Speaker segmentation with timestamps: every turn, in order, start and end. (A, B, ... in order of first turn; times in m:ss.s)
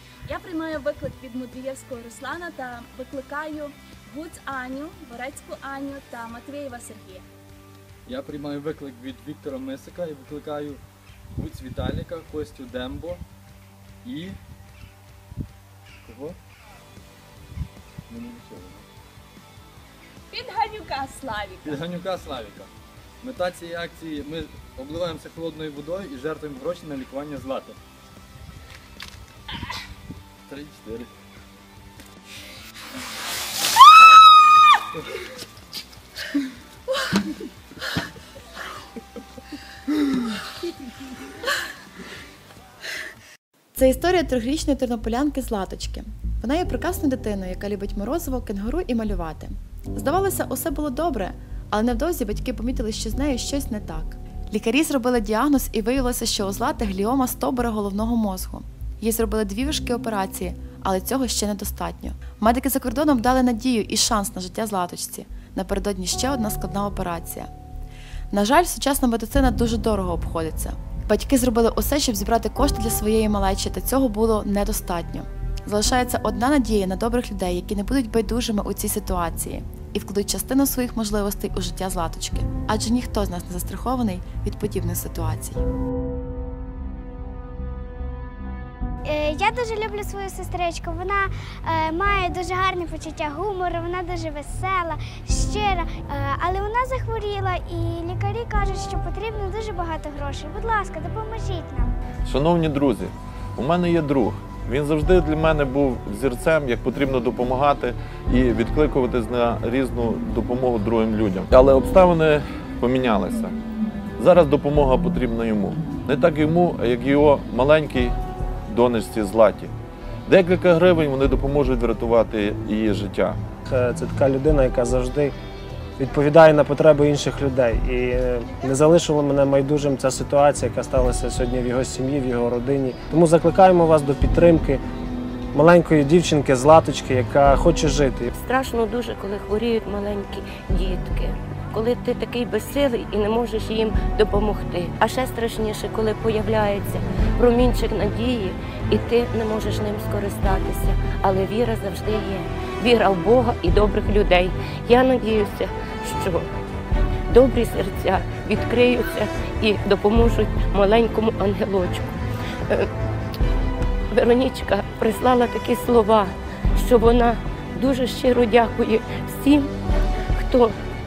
0:00.3-0:07.2 A
0:08.1-0:10.8 B
0:11.4-0:13.2 B
0:14.0-0:14.4 B
0:16.0-0:16.4 B
0:18.1-0:18.9 B
0:20.3-0:21.8 A
0:21.6-0:22.7 B
0:23.2-0:27.8 B
0:30.5-0:31.1 B
0:43.8-1:07.5 C
1:08.3-1:25.6 C
1:29.1-1:41.9 D
1:42.2-1:53.6 E
1:54.2-1:58.2 E
1:58.7-1:59.7 E
2:00.3-2:03.4 E
2:03.7-2:05.4 F
2:06.0-2:14.8 F
2:15.5-2:18.3 F
2:18.4-2:36.5 G
2:37.3-2:42.9 G
2:44.1-2:49.7 G
2:50.4-2:50.8 G